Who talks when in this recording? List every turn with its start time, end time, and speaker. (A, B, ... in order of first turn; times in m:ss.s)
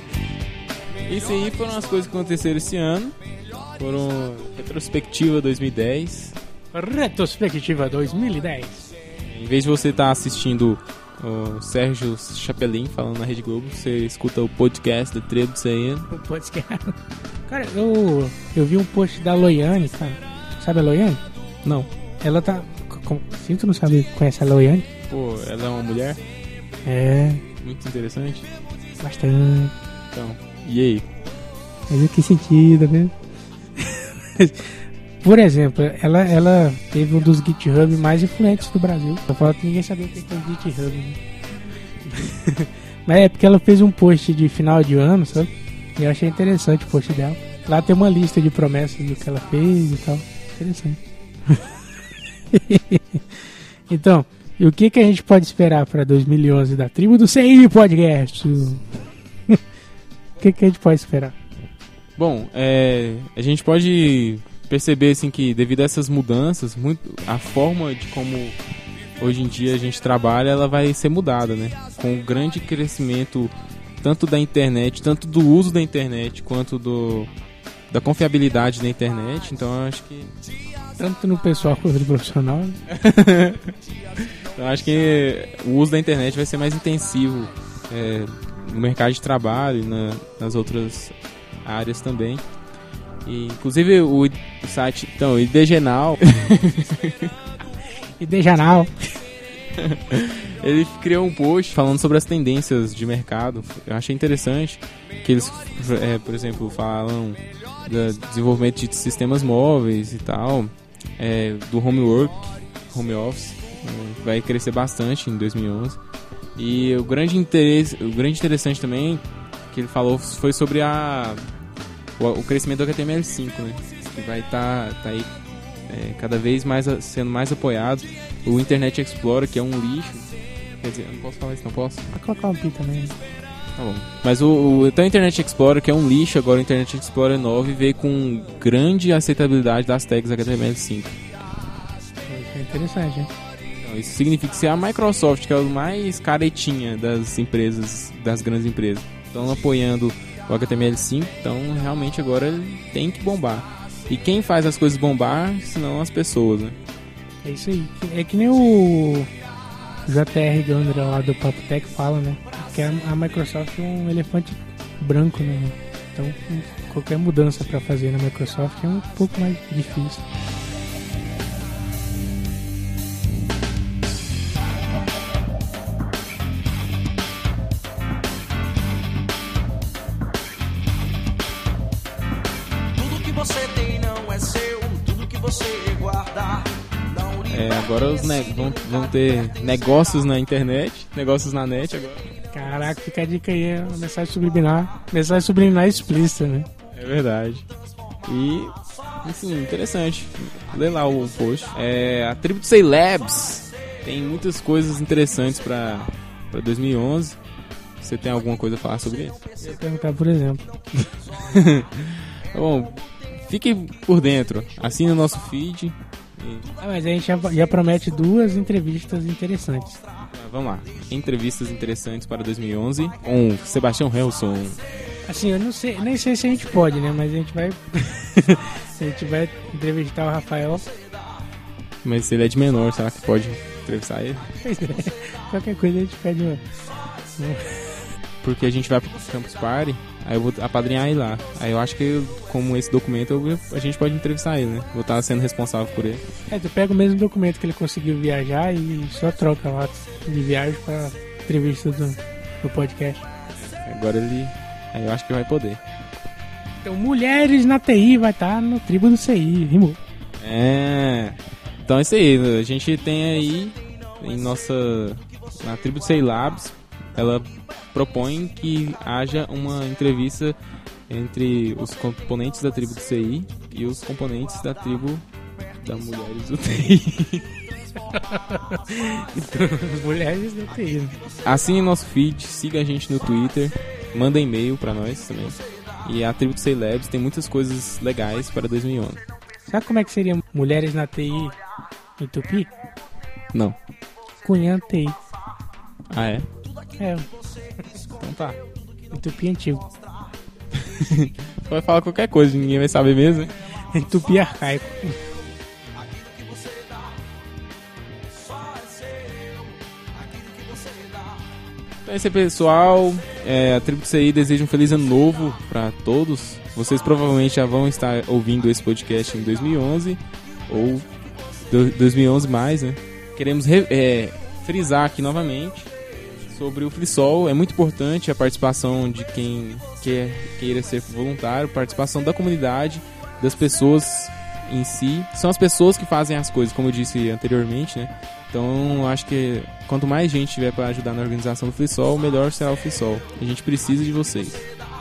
0:01.0-0:03.2 A
0:03.8-0:06.4 A
0:06.7-0:08.9 B
0:09.3-0:16.1 A
0:16.1-0:21.2 B
0:21.6-0:21.9 A
0:22.2-0:24.9 B
0:25.1-0:26.2 A
0:26.8-0:27.5 B
0:27.6-0:28.5 A
0:29.0-0:29.7 B
0:30.1-0:31.1 A
0:31.9-0:33.1 B
0:33.8-0:41.2 B
0:42.0-0:51.8 B
0:52.5-0:58.9 B
1:00.4-1:01.4 B
1:02.2-1:08.6 A
1:09.2-1:17.3 A
1:17.9-1:20.3 A
1:21.0-1:22.8 B
1:22.9-1:31.1 A
1:31.6-1:32.4 A
1:33.2-1:37.3 A
1:38.2-1:39.2 B
1:39.8-1:56.0 A
1:56.6-2:01.4 A
2:02.2-2:05.3 A
2:05.9-2:10.3 A
2:10.8-2:12.1 A
2:12.1-2:13.2 B
2:13.8-2:21.2 A
2:22.3-2:23.3 B
2:23.8-2:36.8 A
2:37.4-2:39.3 B
2:40.0-2:50.2 B
3:03.0-3:07.9 C
3:07.5-3:12.3 A
3:12.5-3:16.7 B
3:16.9-3:17.7 A
3:18.3-3:27.4 A
3:28.0-3:29.5 A
3:29.6-3:31.1 B
3:31.3-3:36.7 A
3:36.8-3:40.0 B
3:40.3-3:44.8 A
3:45.3-3:50.9 B
3:52.0-3:54.5 A
3:54.6-3:56.6 B
3:57.4-3:58.1 B
3:58.4-4:06.2 A
4:06.5-4:13.3 B
4:13.7-4:15.8 A
4:16.8-4:20.0 B
4:20.4-4:30.6 A
4:31.1-4:35.2 A
4:35.8-4:37.5 A
4:38.0-4:41.2 B
4:41.4-4:49.2 A
4:49.7-4:51.6 B
4:52.2-4:52.7 B
4:54.4-4:55.2 B
4:56.1-4:56.5 A
4:57.0-4:57.3 B
4:58.2-4:58.6 A
4:59.1-4:59.9 B
5:00.8-5:03.6 A
5:03.9-5:05.2 B
5:12.0-5:21.1 A
5:21.7-5:25.9 A
5:26.5-5:44.6 A